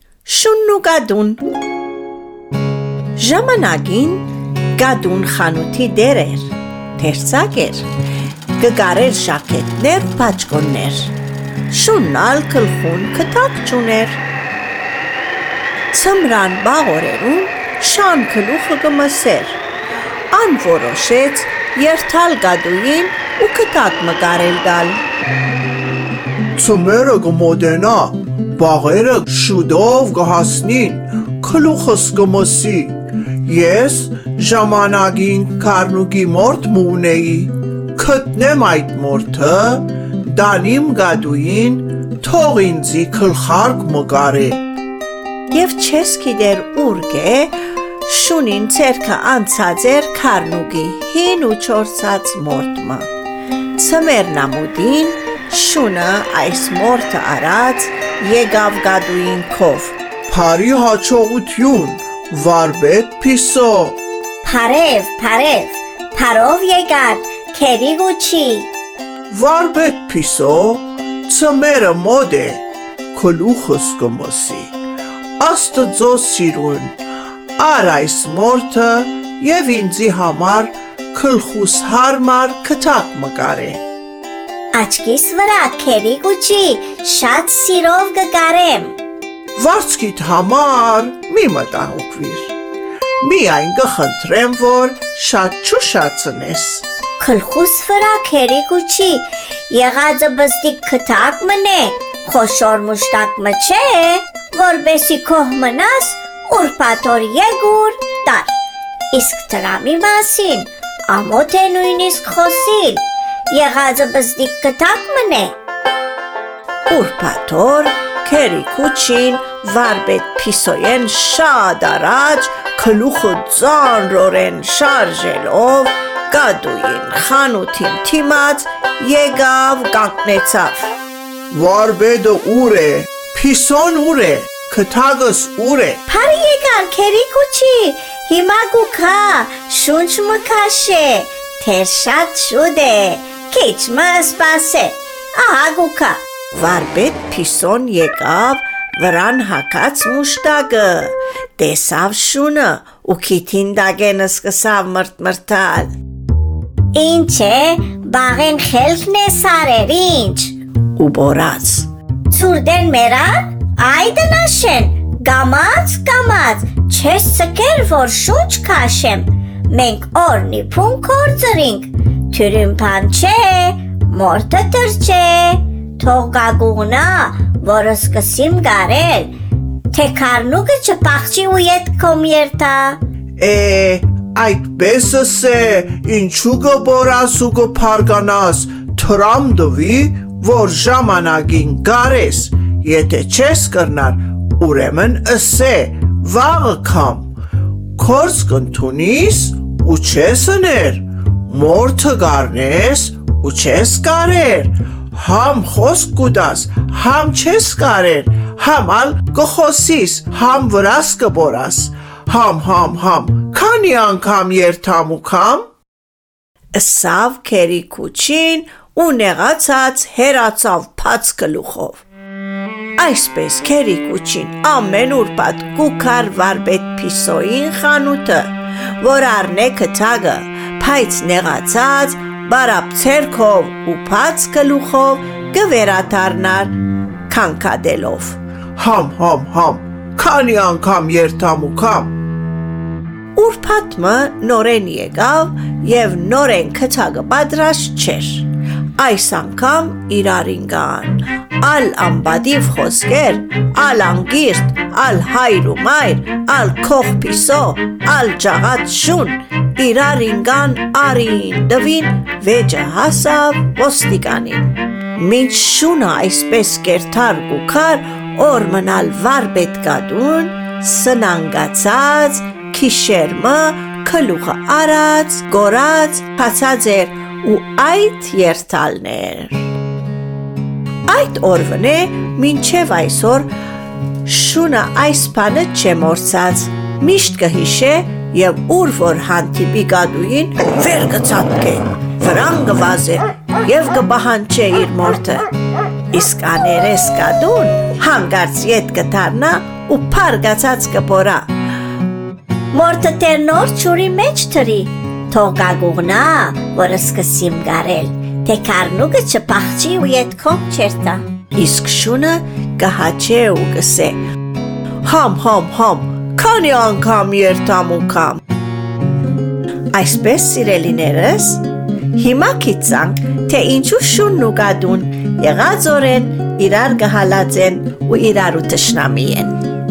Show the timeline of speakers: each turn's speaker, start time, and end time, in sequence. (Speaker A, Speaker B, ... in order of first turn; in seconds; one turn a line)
Speaker A: 0.2-1.4
Speaker A: 3.2-4.2
Speaker A: 4.8-7.9
Speaker A: 8.6-11.2
Speaker A: 11.7-14.2
Speaker A: 15.9-19.6
Speaker A: 20.3-25.0
Speaker B: 26.6-44.6
Speaker A: 45.5-53.1
Speaker A: 53.8-60.0
Speaker B: 60.3-64.0
Speaker C: 64.5-68.7
Speaker B: 69.3-72.6
Speaker B: 73.1-74.7
Speaker B: 75.4-77.0
Speaker B: 77.6-83.8
Speaker C: 84.7-89.0
Speaker B: 89.6-92.5
Speaker B: 93.2-96.8
Speaker C: 97.2-108.6
Speaker C: 109.1-115.5
Speaker A: 116.9-130.9
Speaker B: 131.5-136.0
Speaker C: 136.1-146.2
Speaker A: 146.5-155.9
Speaker C: 156.9-160.6
Speaker A: 161.0-161.9
Speaker C: 162.3-179.4
Speaker C: 179.9-183.0
Speaker B: 183.4-197.3
Speaker B: 198.0-215.7
Speaker A: 216.8-222.0
Speaker A: 223.0-236.8
Speaker A: 237.3-238.4
Speaker B: 238.8-242.1
Speaker A: 243.3-279.7
Speaker A: 281.1-283.5
Speaker A: 284.2-295.5
Speaker A: 296.1-301.5
Speaker C: 302.7-311.2
Speaker A: 311.5-314.2
Speaker A: 315.0-318.4
Speaker A: 319.9-321.6
Speaker A: 322.1-329.6